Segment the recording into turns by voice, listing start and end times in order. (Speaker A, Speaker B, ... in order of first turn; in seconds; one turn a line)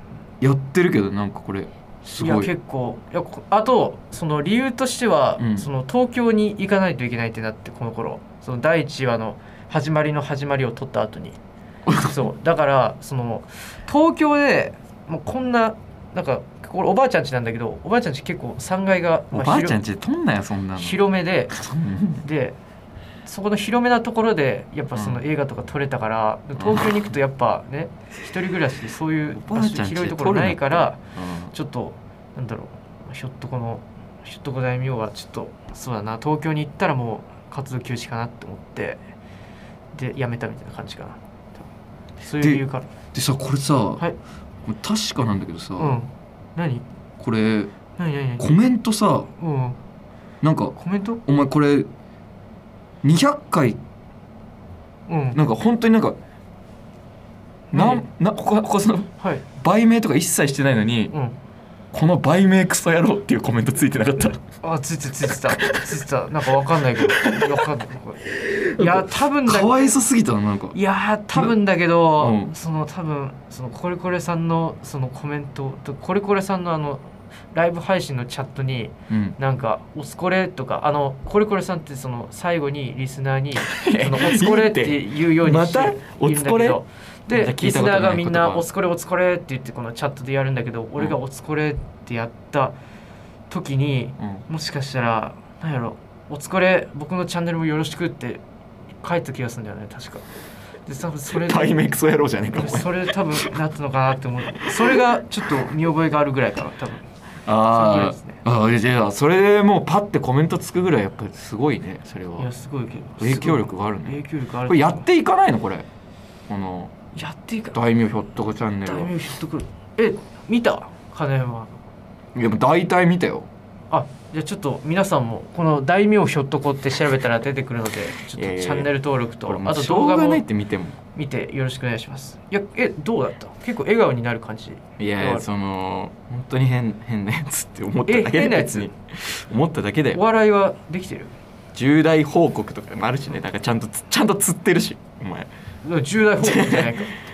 Speaker A: 0.4-2.5
Speaker B: 2.0-11.4
Speaker A: 5.4-5.7
Speaker A: 11.9-12.2
Speaker B: 12.0-19.8
Speaker A: 19.3-22.2
Speaker B: 20.8-21.6
Speaker B: 22.2-22.6
Speaker B: 23.2-39.0
Speaker A: 24.9-25.2
Speaker A: 26.6-27.0
Speaker A: 29.3-31.5
Speaker B: 39.9-41.6
Speaker B: 42.2-42.9
Speaker A: 42.4-44.0
Speaker A: 44.6-46.0
Speaker B: 45.8-46.8
Speaker A: 47.2-47.7
Speaker B: 48.0-48.5
Speaker A: 48.4-49.3
Speaker B: 49.3-49.8
Speaker A: 50.4-50.7
Speaker B: 50.8-51.2
Speaker A: 51.2-51.9
Speaker A: 53.0-53.8
Speaker B: 55.1-55.4
Speaker A: 55.3-56.1
Speaker B: 57.7-58.0
Speaker A: 57.7-61.1
Speaker B: 59.2-59.4
Speaker B: 61.1-61.4
Speaker A: 61.9-64.4
Speaker B: 64.6-70.0
Speaker A: 65.6-65.8
Speaker A: 67.0-67.6
Speaker A: 68.2-70.8
Speaker B: 70.7-92.7
Speaker A: 71.3-71.6
Speaker A: 72.2-72.5
Speaker A: 79.1-79.4
Speaker A: 83.7-88.6
Speaker B: 93.5-98.4
Speaker B: 99.0-100.2
Speaker B: 100.8-101.8
Speaker A: 101.3-103.5
Speaker B: 102.5-107.1
Speaker A: 104.5-105.0
Speaker A: 107.5-112.5
Speaker B: 107.7-108.4
Speaker B: 112.4-115.0
Speaker A: 113.2-115.8
Speaker A: 116.5-116.9
Speaker B: 117.1-117.8
Speaker A: 117.7-119.1
Speaker B: 118.8-121.8
Speaker A: 122.3-123.5
Speaker B: 123.9-130.4
Speaker A: 128.3-128.9
Speaker A: 129.4-131.0
Speaker B: 131.1-135.4
Speaker A: 135.0-140.2
Speaker B: 138.1-138.9
Speaker B: 140.1-141.3
Speaker A: 141.7-145.5
Speaker B: 145.8-147.2
Speaker A: 146.4-147.1